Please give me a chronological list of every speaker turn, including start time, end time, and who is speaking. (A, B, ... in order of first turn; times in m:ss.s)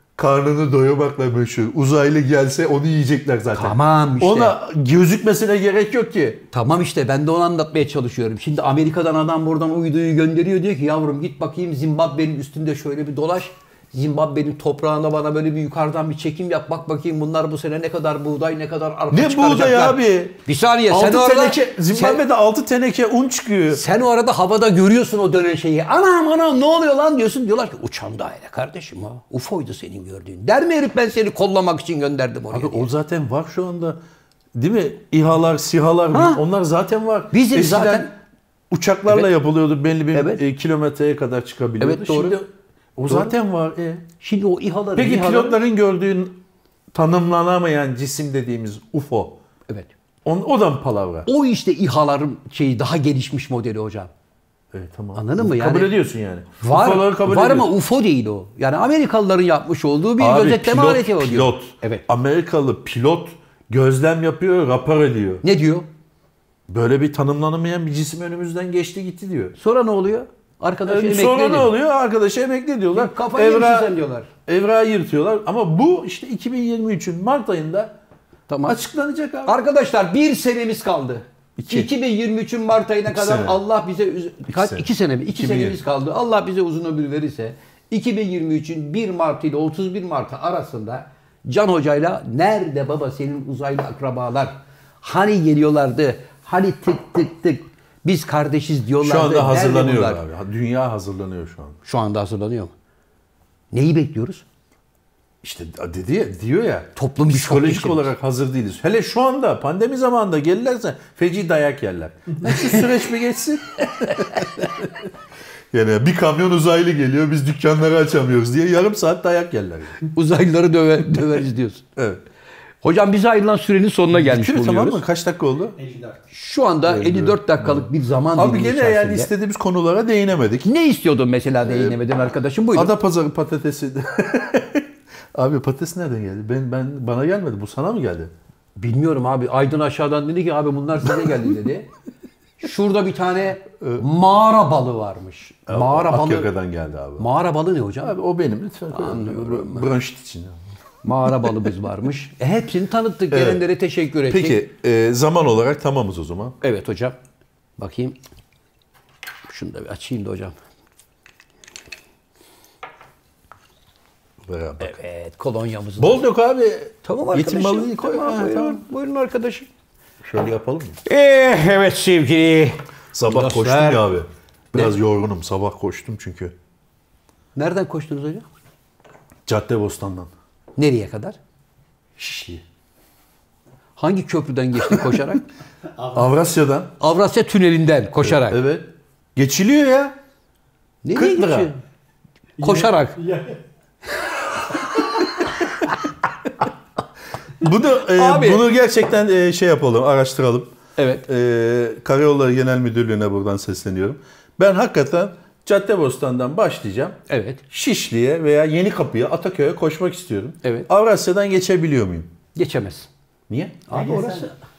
0:00.2-0:06.4 A
0:03.5-0:04.6 B
0:06.5-0:22.2 B
0:19.1-0:23.8 A
0:23.7-0:32.9 B
0:32.5-0:34.0 A
0:34.5-0:38.1 A
0:36.1-0:36.4 B
0:37.3-0:38.1 B
0:38.7-0:44.0 A
0:40.1-0:40.4 B
0:41.8-0:42.4 B
0:44.2-0:45.6 B
0:45.0-0:46.4 A
0:46.9-0:49.4 A
0:50.2-0:51.3 A
0:51.3-0:54.1 B
0:54.7-0:57.7 A
0:55.1-0:55.9 B
0:56.6-1:02.0 B
1:00.2-1:05.4 A
1:05.4-1:05.8 B
1:06.7-1:09.6 A
1:09.6-1:11.7 B
1:10.9-1:13.9 A
1:12.9-1:14.3 B
1:14.5-1:17.9 A
1:18.5-1:18.8 B
1:18.6-1:19.5 A
1:19.4-1:40.2 B
1:21.6-1:21.9 A
1:23.1-1:23.6 A
1:24.5-1:25.8 A
1:39.0-1:41.8 A
1:41.8-1:42.7 B
1:43.7-1:44.4 B
1:45.4-1:55.1 A
1:47.0-1:48.1 B
1:52.4-1:52.8 B
1:54.0-1:54.6 B
1:55.7-2:00.0 A
2:00.1-2:01.8 B
2:02.0-2:02.2 A
2:02.8-2:05.0 B
2:04.1-2:05.8 A
2:05.8-2:06.2 C
2:06.3-2:09.3 B
2:06.9-2:10.7 A
2:10.6-2:12.9 B
2:11.6-2:12.0 A
2:12.7-2:18.3 A
2:18.8-2:21.9 B
2:22.6-2:26.5 B
2:25.7-2:27.3 A
2:27.2-2:28.1 B
2:28.0-2:30.6 A
2:28.9-2:29.8 B
2:31.0-2:34.6 B
2:33.3-2:33.6 A
2:34.3-2:36.6 A
2:36.6-2:37.2 B
2:37.8-2:38.2 B
2:39.5-2:40.5 B
2:44.4-2:45.0 A
2:44.8-2:46.3 B
2:46.0-2:48.8 A
2:47.0-2:49.7 B
2:50.2-2:51.0 A
2:51.0-2:54.1 B
2:53.1-2:56.5 A
2:57.5-2:58.4 B
2:59.5-3:00.3 A
3:00.8-3:01.4 B
3:02.2-3:02.6 A
3:04.0-3:05.4 B
3:06.0-3:06.2 C
3:06.1-3:06.9 A
3:07.0-3:08.6 B
3:08.2-3:10.1 A
3:11.0-3:11.8 B
3:11.2-3:11.7 A
3:12.6-3:13.2 B
3:12.6-3:13.6 C
3:17.6-3:20.7 A
3:18.0-3:18.6 B
3:21.0-3:21.2 B
3:21.2-3:27.2 A
3:27.3-3:27.6 B
3:27.7-3:32.3 A
3:30.6-3:30.9 B
3:32.5-3:33.1 B
3:33.5-3:33.8 A
3:33.9-3:34.6 B
3:33.9-3:34.5 C